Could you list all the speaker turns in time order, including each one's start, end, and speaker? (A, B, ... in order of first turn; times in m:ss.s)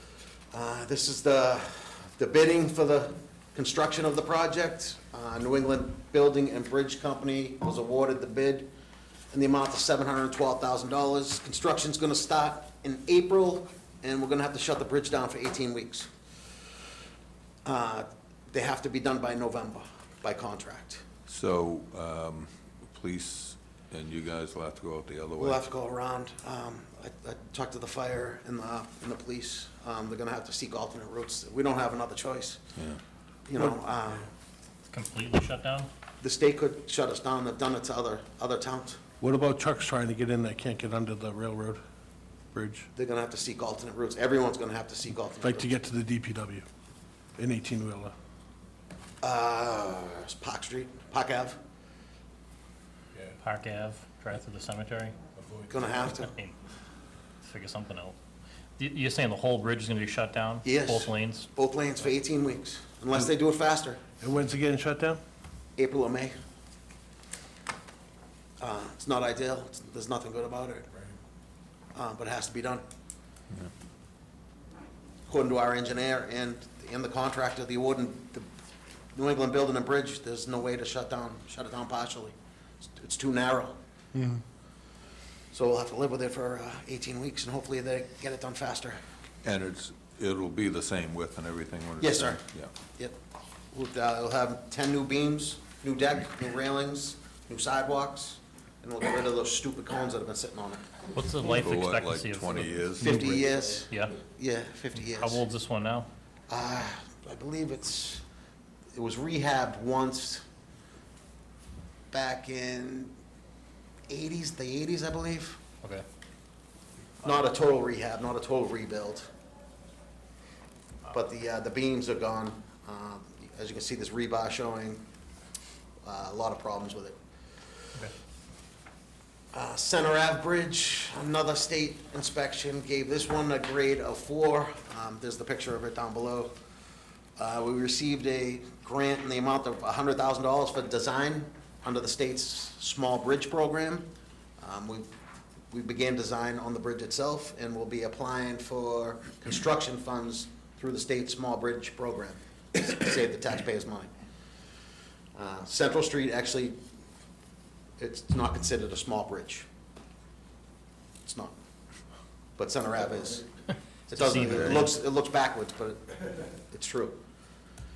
0:00.5-0:08.7 A
0:09.3-0:16.1 A
0:17.6-0:21.0 A
0:21.3-0:25.6 B
0:25.4-0:32.6 A
0:33.5-0:34.3 A
0:34.9-0:35.9 C
0:36.2-0:39.0 A
0:39.2-0:41.8 D
0:42.5-0:42.9 D
0:43.0-0:45.8 A
0:45.4-0:46.7 D
0:47.4-0:48.2 D
0:49.2-0:51.6 A
0:53.4-0:55.2 C
0:55.7-0:56.3 A
0:56.0-0:56.6 C
0:57.4-0:58.2 C
0:58.8-1:01.5 C
1:00.6-1:04.0 A
1:04.2-1:05.2 D
1:05.8-1:06.3 A
1:08.6-1:10.9 A
1:11.9-1:12.8 A
1:15.3-1:18.5 A
1:19.1-1:22.4 A
1:23.0-1:23.8 A
1:24.1-1:24.4 D
1:25.5-1:29.0 A
1:29.4-1:32.7 B
1:32.0-1:32.4 A
1:33.7-1:40.8 A
1:41.1-1:43.3 C
1:41.4-1:43.4 B
1:43.0-1:45.4 A
1:43.9-1:44.2 C
1:45.0-1:46.1 C
1:46.5-1:48.2 A
1:48.9-1:50.4 A
1:52.1-1:53.1 A
1:54.1-1:55.6 A
1:57.2-1:59.3 A
2:01.1-2:05.0 A
2:06.0-2:07.2 A
2:09.5-2:16.5 A
2:17.4-2:24.1 A
2:24.6-2:25.1 A
2:25.7-2:34.1 A
2:35.4-2:36.8 A
2:38.0-2:39.7 A
2:41.2-2:41.6 A
2:42.6-2:43.5 A
2:44.1-2:47.2 A
2:44.1-2:44.9 C
2:44.2-2:44.9 B